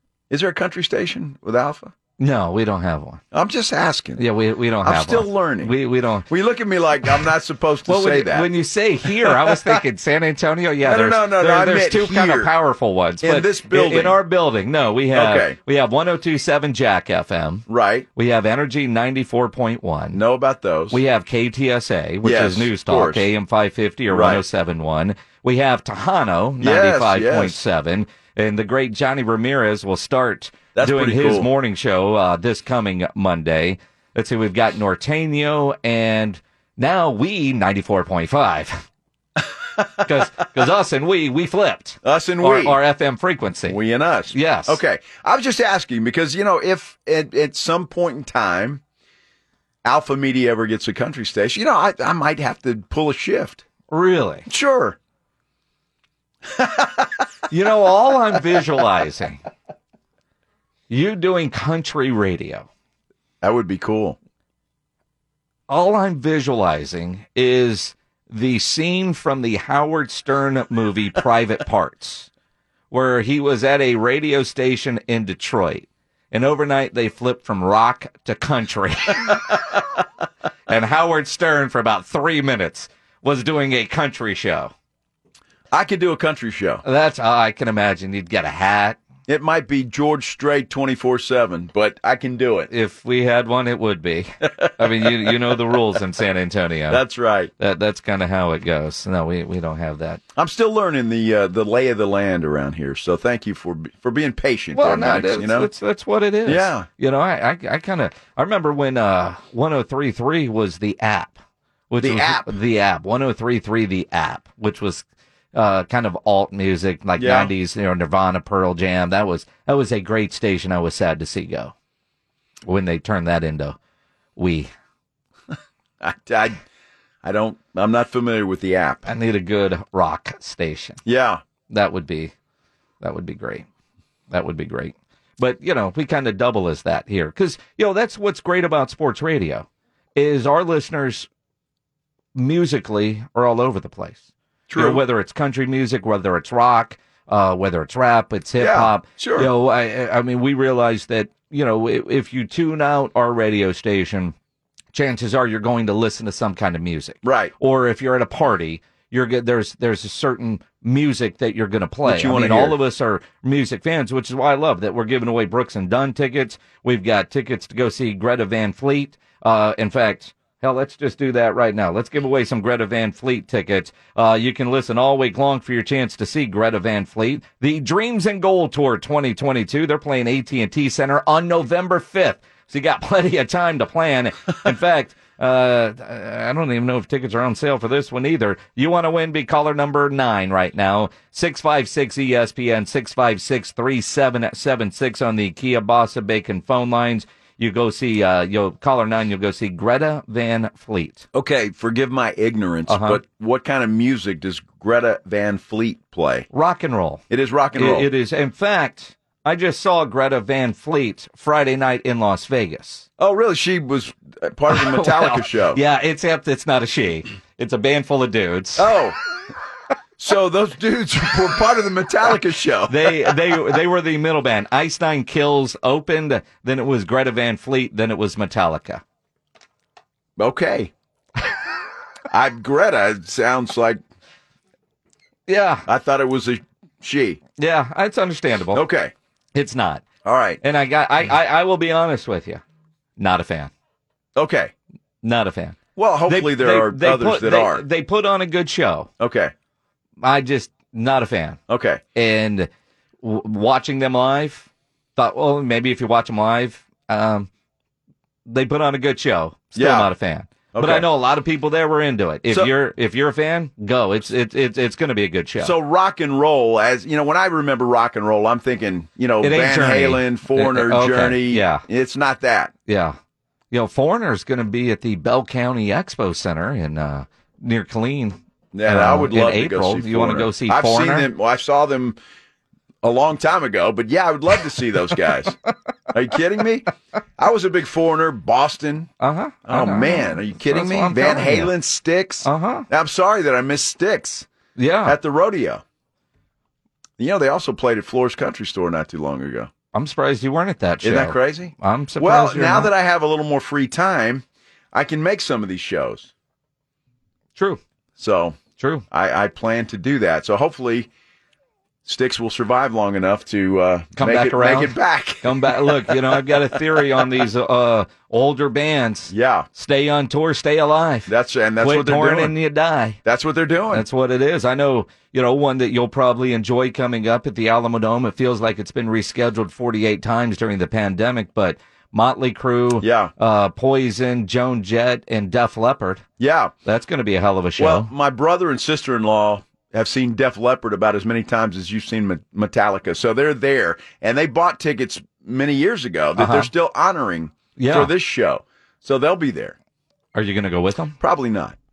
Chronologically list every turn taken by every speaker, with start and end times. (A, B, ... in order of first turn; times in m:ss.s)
0:00.3-0:01.9 A
0:02.2-0:03.2 B
0:03.3-0:04.2 A
0:04.2-0:06.3 B
0:04.8-0:05.7 A
0:06.3-0:08.5 A
0:07.9-0:20.2 B
0:09.1-0:09.8 A
0:10.8-0:12.5 A
0:13.2-0:14.2 A
0:15.1-0:15.6 A
0:17.7-0:18.1 A
0:20.1-0:21.0 A
0:20.9-0:38.9 B
0:22.2-0:23.3 A
0:24.1-0:24.4 A
0:26.6-0:27.6 A
0:30.7-0:31.5 A
0:40.0-0:43.8 B
0:42.0-0:42.8 A
0:43.7-0:48.8 A
0:44.3-0:44.8 B
0:49.8-0:53.6 A
0:53.9-0:54.5 B
0:54.5-0:55.0 A
0:56.5-0:57.1 A
0:57.5-0:59.4 B
1:00.9-1:02.7 B
1:03.4-1:04.2 A
1:05.7-1:12.3 B
1:12.9-1:19.5 B
1:20.7-1:24.7 B
1:25.7-1:26.8 A
1:26.8-1:29.0 B
1:29.3-1:32.7 A
1:32.7-1:37.0 B
1:34.6-1:35.3 A
1:36.9-1:37.5 A
1:37.6-1:40.2 B
1:40.4-1:45.7 A
1:44.7-1:51.4 B
1:46.4-1:46.9 A
1:51.9-2:01.7 B
1:52.0-1:52.5 A
1:57.2-1:57.5 A
2:02.6-2:03.8 B
2:04.4-2:04.7 B
2:06.0-2:06.6 A
2:07.2-2:09.0 A
2:09.0-2:11.0 B
2:11.0-2:11.4 A
2:11.7-2:12.3 B
2:13.0-2:13.6 B
2:14.3-2:21.3 B
2:22.3-2:24.2 B
2:24.7-2:25.0 A
2:24.7-2:34.3 B
2:28.6-2:29.5 A
2:34.9-3:21.2 B
2:37.2-2:37.5 A
2:42.0-2:42.8 A
3:21.3-3:26.5 A
3:22.9-3:23.2 B
3:26.5-3:27.2 B
3:27.3-3:28.1 A
3:27.7-3:33.0 B
3:33.2-3:35.8 A
3:34.7-3:38.9 B
3:38.8-3:39.2 A
3:40.2-3:43.4 A
3:42.9-3:49.0 B
3:50.4-3:50.9 A
3:52.3-3:54.0 A
3:55.5-3:55.9 B
3:55.9-3:57.4 A
3:57.6-3:58.8 B
3:58.7-3:59.1 A
3:59.5-4:00.0 B
4:00.2-4:00.6 A
4:00.6-4:02.6 B
4:03.2-4:03.7 B
4:04.4-4:04.7 A
4:05.2-4:09.1 B
4:06.0-4:07.8 A
4:09.2-4:09.5 A
4:10.2-4:11.6 B
4:11.7-4:12.0 A
4:12.1-4:12.7 B
4:13.2-4:17.5 B
4:18.4-4:25.7 B
4:19.7-4:20.1 A
4:20.7-4:21.1 A
4:25.6-4:32.7 A
4:29.4-4:31.8 B
4:32.9-4:33.2 B
4:33.7-4:41.3 B
4:38.7-4:42.2 A
4:43.0-4:45.6 A
4:46.1-4:49.1 A
4:49.2-4:51.7 B
4:49.6-4:54.5 A
4:52.4-4:52.9 B
4:54.8-4:55.2 B
4:55.0-4:55.8 A
4:57.2-4:59.7 A
4:59.9-5:02.9 B
5:01.0-5:06.3 A
5:07.6-5:07.8 B
5:08.2-5:08.6 A
5:08.8-5:09.0 B
5:09.1-5:11.1 A
5:12.0-5:17.0 A
5:14.2-5:23.2 B
5:19.3-5:19.7 A
5:21.3-5:22.5 A
5:23.2-5:24.0 A
5:23.9-5:36.2 B
5:33.0-5:33.3 A
5:36.4-5:36.7 A
5:36.8-5:38.1 B
5:37.8-5:49.8 A
5:46.4-5:46.7 B
5:47.8-5:48.1 B
5:50.3-5:51.2 B
5:51.2-5:51.8 A